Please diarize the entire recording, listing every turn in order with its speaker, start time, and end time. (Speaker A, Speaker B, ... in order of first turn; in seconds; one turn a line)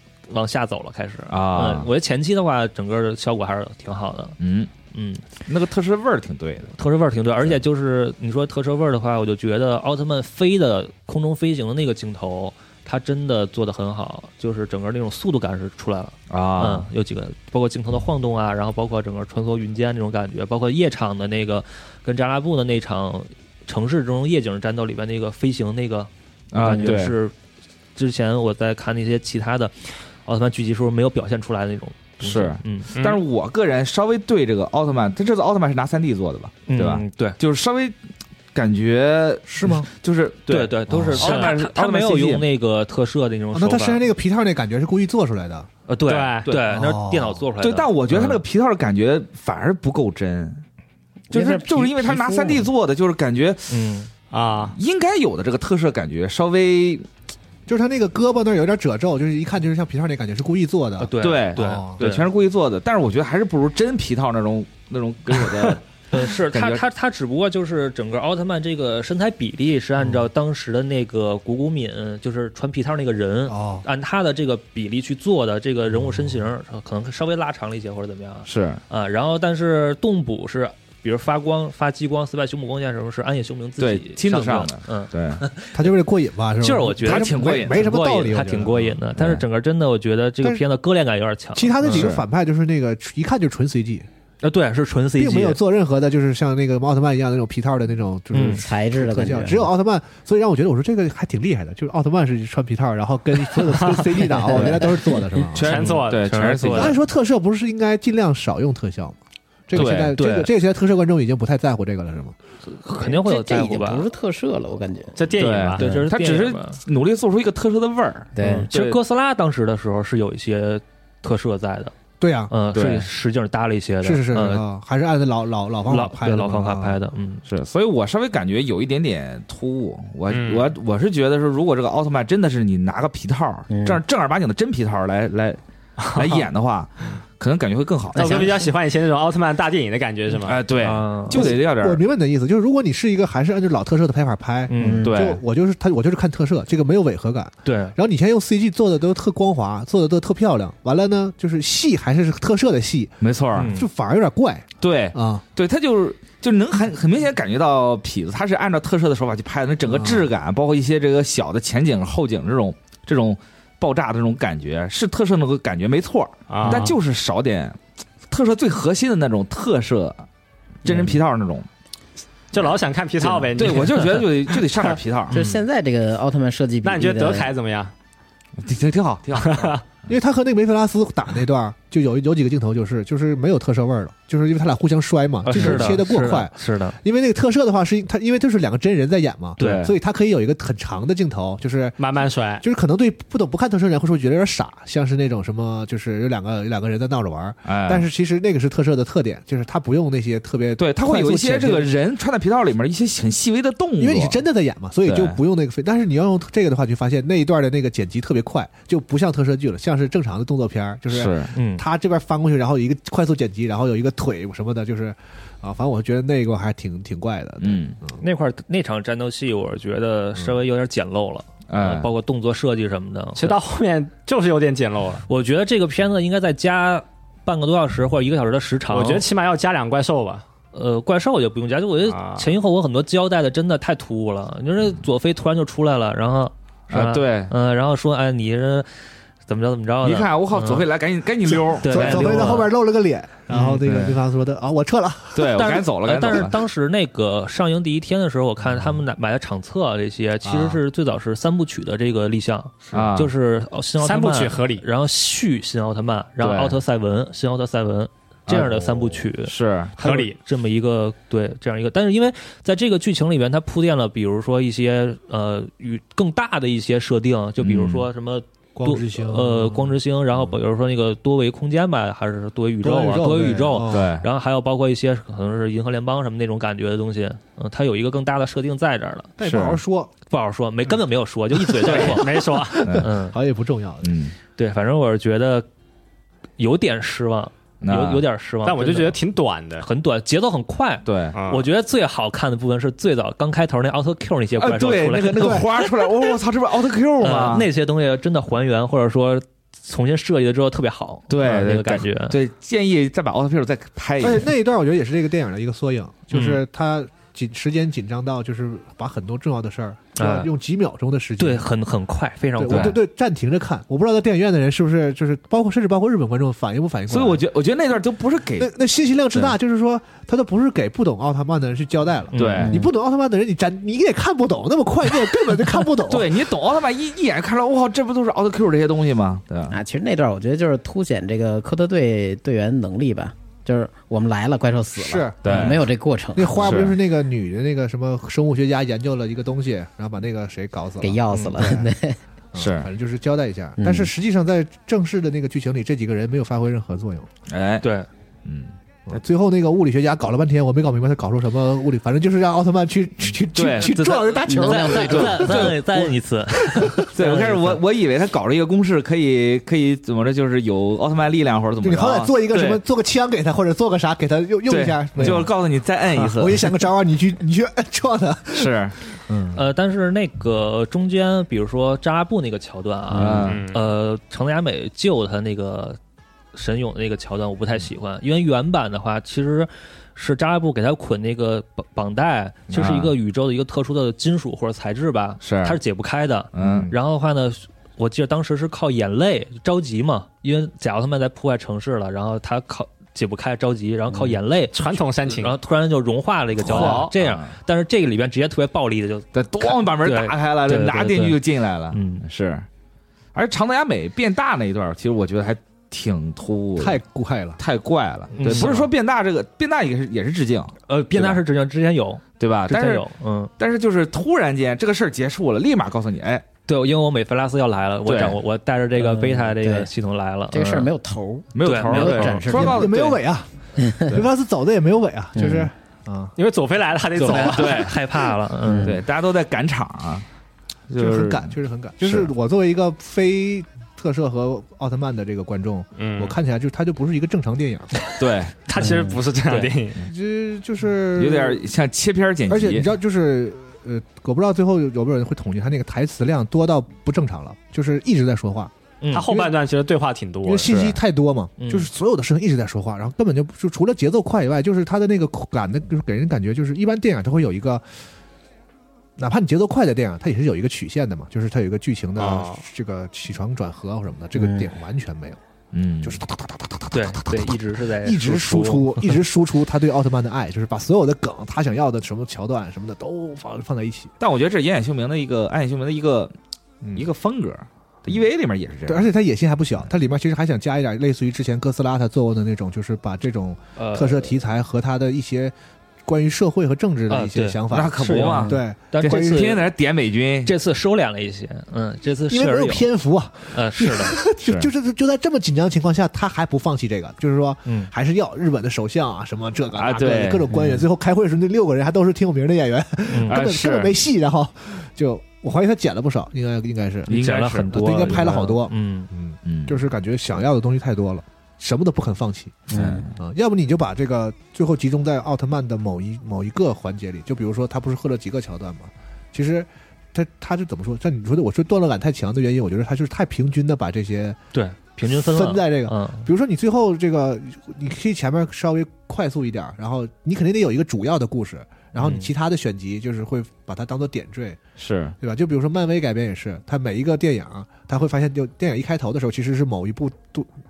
Speaker A: 0.3-4.4
Speaker B: 1.3-1.9
Speaker B: 4.4-4.7
Speaker A: 4.9-5.2
Speaker B: 5.5-6.8
Speaker A: 6.8-27.3
Speaker B: 16.3-16.9
Speaker B: 26.5-27.2
Speaker A: 28.0-32.9
Speaker B: 32.2-38.0
Speaker C: 33.0-33.2
Speaker A: 36.7-37.4
Speaker B: 38.5-42.5
Speaker D: 39.5-39.9
Speaker A: 40.5-44.0
Speaker D: 40.9-41.2
Speaker C: 41.2-41.6
Speaker D: 43.5-45.7
Speaker A: 45.9-48.4
Speaker C: 46.1-46.5
Speaker D: 46.7-47.4
Speaker B: 47.6-50.6
Speaker E: 51.3-52.6
Speaker B: 51.3-53.8
Speaker A: 53.7-54.1
Speaker C: 54.3-54.8
Speaker B: 54.7-57.0
Speaker D: 57.7-62.0
Speaker A: 61.0-62.3
Speaker B: 61.2-66.8
Speaker A: 66.1-85.9
Speaker D: 70.0-70.3
Speaker D: 73.5-73.8
Speaker D: 76.0-76.4
Speaker B: 78.5-78.8
Speaker B: 83.8-85.4
Speaker D: 85.7-88.9
Speaker A: 86.6-92.1
Speaker B: 87.0-87.9
Speaker B: 89.2-89.4
Speaker D: 91.6-94.1
Speaker B: 91.8-92.2
Speaker A: 94.4-95.6
Speaker D: 95.2-105.7
Speaker A: 98.3-98.6
Speaker E: 98.5-99.7
Speaker E: 104.2-105.1
Speaker B: 105.5-107.0
Speaker C: 105.6-106.3
Speaker A: 105.7-107.0
Speaker D: 106.7-109.2
Speaker D: 109.7-112.3
Speaker B: 109.7-110.2
Speaker A: 110.2-110.5
Speaker A: 112.7-114.0
Speaker E: 113.0-115.3
Speaker C: 115.2-115.8
Speaker B: 115.4-119.0
Speaker A: 115.8-116.8
Speaker E: 118.3-118.7
Speaker A: 118.4-121.9
Speaker D: 122.2-122.5
Speaker A: 122.5-124.6
Speaker B: 122.7-123.1
Speaker D: 124.0-127.0
Speaker A: 125.9-127.4
Speaker B: 127.5-135.6
Speaker C: 130.3-130.7
Speaker E: 133.7-134.0
Speaker C: 136.0-136.4
Speaker B: 136.2-138.5
Speaker E: 138.2-138.6
Speaker C: 138.2-140.6
Speaker B: 140.4-142.0
Speaker A: 140.8-141.5
Speaker D: 141.3-155.4
Speaker A: 144.7-145.1
Speaker E: 144.8-145.1
Speaker B: 145.0-145.4
Speaker A: 147.7-147.9
Speaker B: 153.2-153.8
Speaker A: 153.6-153.9
Speaker B: 154.8-170.3
Speaker D: 159.9-160.2
Speaker C: 166.5-166.9
Speaker B: 170.8-171.7
Speaker C: 172.5-174.9
Speaker B: 173.2-175.4
Speaker E: 175.3-177.5
Speaker C: 176.8-177.9
Speaker B: 178.6-179.7
Speaker C: 179.4-179.8
Speaker D: 180.1-192.0
Speaker A: 185.5-187.0
Speaker B: 185.5-185.8
Speaker B: 189.6-189.9
Speaker A: 189.6-189.9
Speaker C: 192.0-192.6
Speaker D: 192.6-201.9
Speaker B: 197.7-198.1
Speaker B: 200.8-204.4
Speaker D: 204.0-218.2
Speaker B: 205.1-205.4
Speaker B: 211.1-211.5
Speaker A: 211.5-211.8
Speaker B: 217.6-218.0
Speaker A: 218.2-223.6
Speaker B: 221.7-222.1
Speaker C: 223.4-225.2
Speaker A: 225.3-229.3
Speaker C: 228.9-230.4
Speaker A: 230.7-238.9
Speaker C: 232.1-232.5
Speaker B: 236.9-237.5
Speaker A: 239.5-240.9
Speaker B: 240.0-242.6
Speaker D: 241.6-245.5
Speaker A: 241.8-242.7
Speaker B: 243.5-244.2
Speaker B: 245.3-246.6
Speaker A: 245.5-279.4
Speaker D: 250.4-250.8
Speaker B: 252.9-253.3
Speaker C: 254.0-254.8
Speaker B: 256.4-256.8
Speaker B: 258.5-260.0
Speaker C: 260.0-260.4
Speaker B: 267.6-268.1
Speaker D: 268.8-270.0
Speaker D: 272.8-274.1
Speaker B: 273.9-274.2
Speaker D: 279.4-280.1
Speaker B: 279.4-279.8
Speaker A: 280.3-282.3
Speaker D: 281.6-284.1
Speaker B: 281.8-282.2
Speaker C: 281.9-282.8
Speaker B: 282.8-283.1
Speaker A: 283.0-283.4
Speaker B: 284.0-284.4
Speaker A: 284.6-285.7
Speaker A: 286.6-289.2
Speaker B: 287.8-288.2
Speaker C: 288.6-289.9
Speaker A: 289.8-296.1
Speaker B: 291.1-291.4
Speaker C: 291.3-291.7
Speaker B: 294.6-297.7
Speaker D: 295.4-295.6
Speaker A: 297.2-302.4
Speaker B: 301.3-304.5
Speaker D: 304.2-311.6
Speaker A: 306.3-306.6
Speaker A: 310.2-310.5
Speaker A: 311.4-313.0
Speaker D: 312.6-317.4
Speaker B: 312.7-313.0
Speaker B: 317.1-318.7
Speaker D: 318.6-326.3
Speaker A: 322.3-322.7
Speaker B: 322.3-322.8
Speaker E: 322.6-322.9
Speaker B: 325.9-329.8
Speaker E: 329.7-336.9
Speaker D: 335.0-335.8
Speaker B: 335.4-335.9
Speaker D: 336.4-341.9
Speaker B: 336.6-337.0
Speaker E: 341.0-342.2
Speaker D: 342.5-347.3
Speaker B: 342.6-342.9
Speaker E: 343.8-344.1
Speaker B: 347.5-347.9
Speaker A: 347.8-348.1
Speaker B: 348.4-348.7
Speaker D: 349.1-356.1
Speaker B: 353.3-354.2
Speaker A: 353.8-357.8
Speaker E: 354.5-355.4
Speaker B: 354.9-355.8
Speaker D: 356.6-357.1
Speaker B: 357.1-362.8
Speaker D: 361.8-365.5
Speaker B: 364.7-366.7
Speaker D: 366.2-368.7
Speaker B: 368.5-369.0
Speaker D: 369.3-369.6
Speaker A: 369.6-376.0
Speaker E: 373.1-373.4
Speaker B: 373.1-373.6
Speaker C: 373.4-373.8
Speaker A: 376.5-401.4
Speaker B: 382.7-383.1
Speaker B: 385.4-385.8
Speaker B: 386.5-386.9
Speaker D: 386.6-386.9
Speaker E: 394.1-394.4
Speaker C: 394.7-395.5
Speaker B: 396.6-397.5
Speaker C: 396.7-397.1
Speaker B: 399.3-402.7
Speaker A: 401.9-402.2
Speaker B: 403.4-407.0
Speaker D: 406.8-407.6
Speaker B: 407.6-411.4
Speaker D: 408.4-408.7
Speaker A: 408.4-408.9
Speaker A: 410.9-413.5
Speaker B: 412.4-413.1
Speaker B: 413.6-416.5
Speaker A: 416.7-420.9
Speaker B: 418.1-418.4
Speaker E: 419.0-419.9
Speaker E: 420.5-422.9
Speaker B: 421.6-423.2
Speaker A: 421.6-422.7
Speaker D: 422.5-426.3
Speaker E: 423.8-424.2
Speaker E: 425.4-425.7
Speaker C: 426.4-427.9
Speaker A: 427.2-429.0
Speaker B: 427.3-428.0
Speaker E: 428.6-429.0
Speaker B: 428.8-430.2
Speaker B: 430.9-432.3
Speaker D: 431.0-437.9
Speaker C: 436.0-436.4
Speaker B: 438.2-438.6
Speaker C: 438.7-440.0
Speaker E: 438.8-439.2
Speaker D: 440.0-441.6
Speaker B: 441.1-442.9
Speaker D: 442.5-448.7
Speaker A: 449.0-449.3
Speaker C: 449.1-450.7
Speaker D: 450.5-457.9
Speaker B: 450.6-451.0
Speaker A: 451.6-451.9
Speaker D: 459.2-465.4
Speaker C: 462.2-462.6
Speaker E: 464.4-464.7
Speaker B: 465.7-466.2
Speaker D: 466.0-474.1
Speaker A: 466.9-469.0
Speaker B: 474.2-476.3
Speaker D: 476.8-477.1
Speaker B: 476.9-479.1
Speaker D: 478.9-485.5
Speaker A: 483.8-484.3
Speaker D: 486.1-489.5
Speaker A: 487.1-489.7
Speaker B: 487.7-490.5
Speaker A: 490.5-492.9
Speaker D: 492.3-507.1
Speaker A: 493.5-494.2
Speaker B: 494.4-494.7
Speaker A: 497.7-497.9
Speaker B: 499.8-500.5
Speaker A: 500.5-500.9
Speaker A: 503.1-503.4
Speaker B: 503.3-504.0
Speaker B: 507.1-508.3
Speaker A: 507.1-509.1
Speaker D: 507.7-524.4
Speaker B: 509.4-509.8
Speaker E: 512.7-513.0
Speaker B: 512.7-513.2
Speaker A: 524.5-526.3
Speaker D: 525.0-534.6
Speaker A: 532.0-532.3
Speaker B: 534.8-535.2
Speaker D: 535.2-540.5